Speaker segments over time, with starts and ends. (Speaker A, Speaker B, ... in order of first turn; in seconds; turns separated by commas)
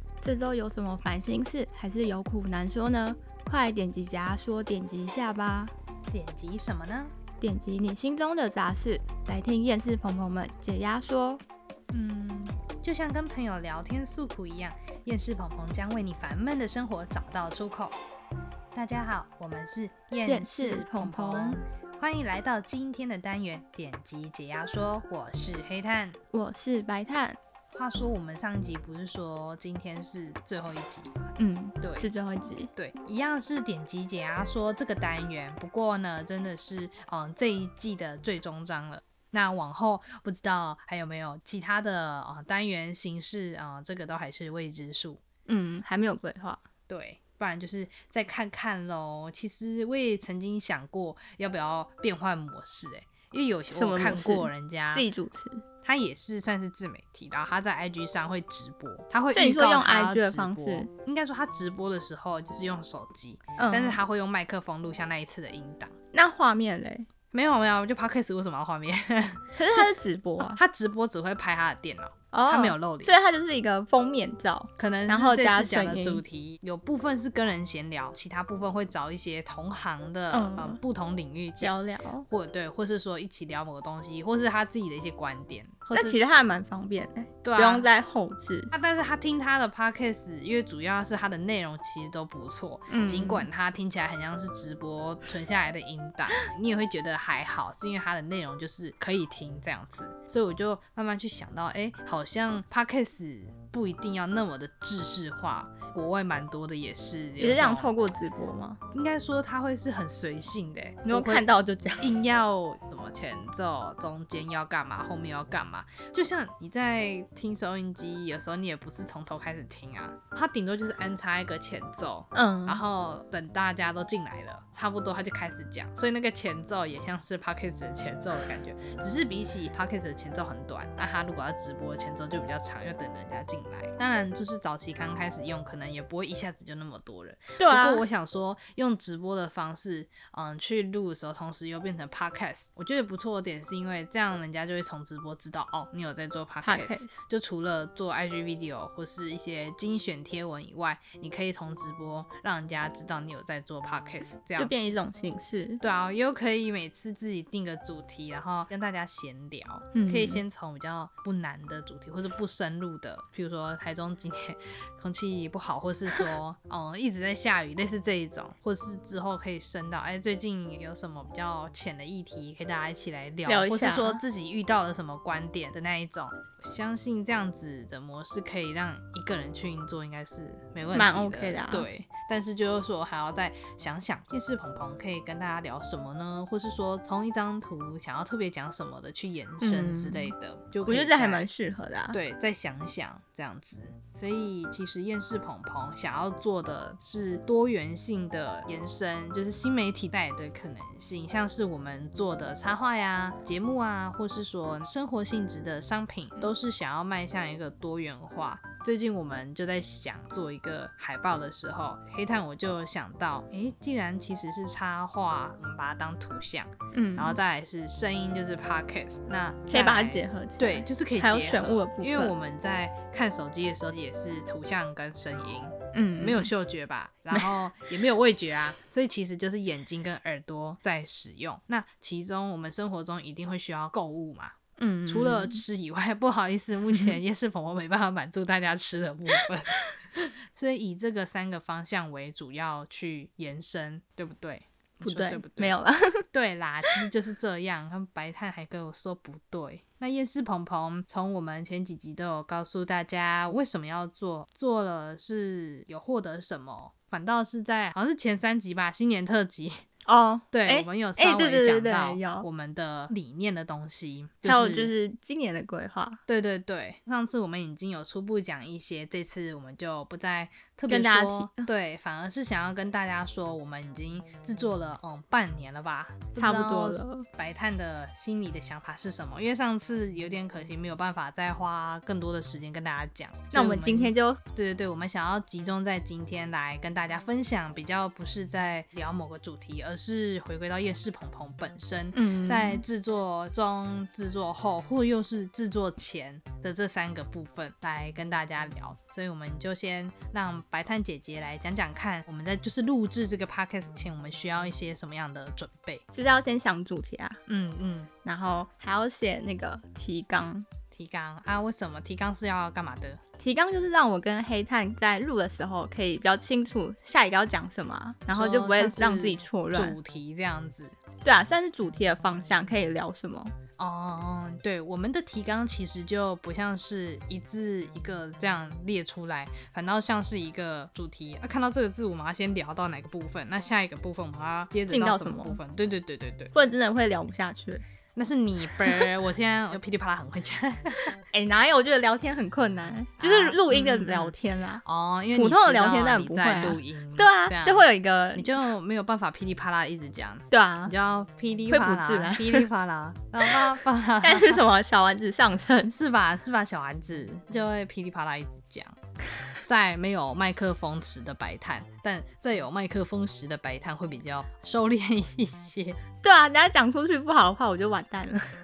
Speaker A: 0.2-5.7, Speaker B: 6.1-7.1, Speaker A: 7.4-11.4, Speaker B: 11.9-18.0, Speaker B: 18.7-26.2, Speaker A: 20.3-21.6, Speaker A: 26.3-27.4, Speaker B: 27.7-31.1, Speaker A: 31.4-32.7, Speaker B: 31.8-32.1, Speaker B: 32.8-45.2, Speaker A: 45.5-46.6, Speaker B: 46.9-55.1, Speaker A: 53.7-55.6, Speaker B: 55.8-66.0, Speaker A: 59.3-60.9, Speaker A: 63.6-64.0, Speaker A: 66.1-67.1, Speaker B: 67.3-73.1, Speaker A: 69.5-70.6, Speaker A: 72.3-76.2, Speaker B: 74.8-81.7, Speaker A: 80.3-80.8, Speaker A: 81.6-82.3, Speaker B: 82.3-86.2, Speaker A: 85.9-88.7, Speaker B: 87.4-87.9, Speaker B: 88.7-107.9, Speaker A: 92.9-93.5, Speaker A: 107.4-108.8, Speaker B: 108.9-111.5, Speaker A: 111.1-112.2, Speaker B: 112.0-154.8, Speaker A: 122.3-122.8, Speaker A: 137.6-138.0, Speaker A: 146.6-147.2, Speaker A: 154.6-155.8, Speaker B: 155.8-191.5, Speaker A: 159.9-160.4, Speaker A: 173.5-174.2, Speaker A: 180.9-181.9, Speaker A: 189.6-190.3, Speaker A: 190.8-192.2, Speaker B: 192.1-234.6, Speaker A: 216.9-217.4, Speaker A: 219.7-222.3, Speaker A: 225.9-226.5, Speaker A: 227.3-227.6, Speaker A: 234.8-235.6, Speaker B: 235.1-245.8, Speaker A: 236.9-237.2, Speaker A: 245.0-246.2, Speaker B: 246.3-259.9, Speaker A: 260.1-262.4, Speaker B: 260.5-264.9, Speaker A: 264.4-266.2, Speaker B: 266.3-306.0, Speaker A: 270.9-271.7, Speaker A: 276.4-277.2, Speaker A: 283.5-284.4, Speaker A: 292.1-292.8, Speaker A: 306.1-307.4, Speaker B: 307.5-308.1, Speaker A: 308.2-310.7, Speaker B: 310.9-313.2, Speaker A: 313.4-320.0, Speaker B: 318.3-320.9, Speaker A: 321.2-323.5, Speaker B: 323.8-336.5, Speaker A: 334.9-335.6, Speaker A: 336.5-337.8, Speaker B: 338.1-341.1, Speaker A: 338.8-339.1, Speaker A: 341.3-348.5, Speaker B: 343.2-354.6, Speaker A: 350.5-350.9, Speaker A: 351.7-352.7, Speaker A: 353.4-355.9, Speaker B: 355.9-359.0, Speaker B: 359.6-366.0, Speaker A: 366.2-368.4